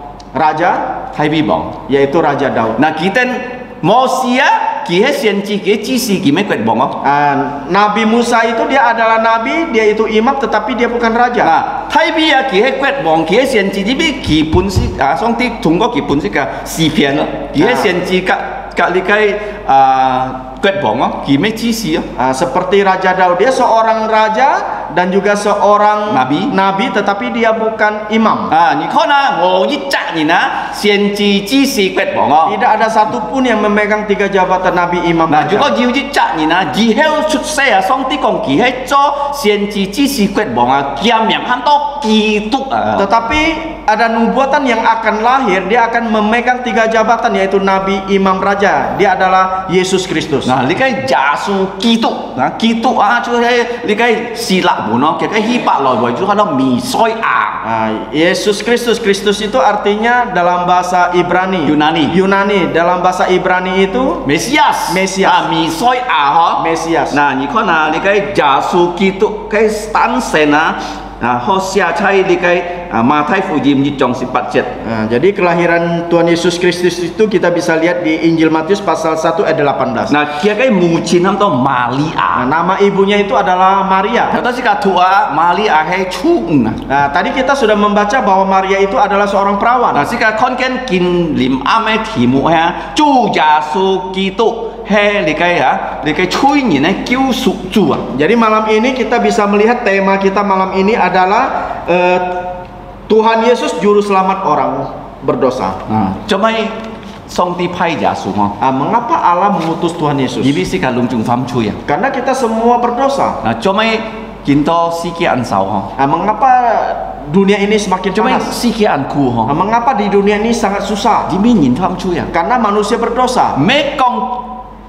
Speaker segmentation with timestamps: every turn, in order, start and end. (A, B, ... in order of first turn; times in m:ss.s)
0:00.3-0:01.0 A
0:01.1-0:01.7 B
0:01.9-0:02.8 A
0:02.8-0:07.0 B
0:07.0-0:11.5 A
0:11.4-0:22.1 B
0:17.6-0:17.9 A
0:22.2-0:28.5 A
0:26.1-0:26.5 B
0:28.5-0:32.6 B
0:32.4-0:35.7 A
0:35.3-0:43.1 B
0:43.0-0:50.5 A
0:50.4-0:57.6 B
0:57.6-1:04.2 A
1:01.6-1:02.2 B
1:04.2-1:14.7 B
1:04.9-1:05.4 A
1:06.6-1:07.2 A
1:14.8-1:20.1 A
1:20.1-1:22.4 B
1:22.3-1:24.4 A
1:24.3-1:26.8 B
1:26.9-1:30.1 A
1:29.9-1:38.1 B
1:38.1-1:42.5 A
1:43.1-1:45.8 A
1:45.9-1:48.5 B
1:48.6-1:50.6 A
1:50.4-1:51.8 B
1:51.9-1:53.4 A
1:53.4-1:55.9 B
1:56.0-1:58.5 A
1:58.2-1:59.5 B
1:59.5-2:01.3 A
2:01.3-2:02.3 B
2:02.3-2:03.6 A
2:03.6-2:04.5 B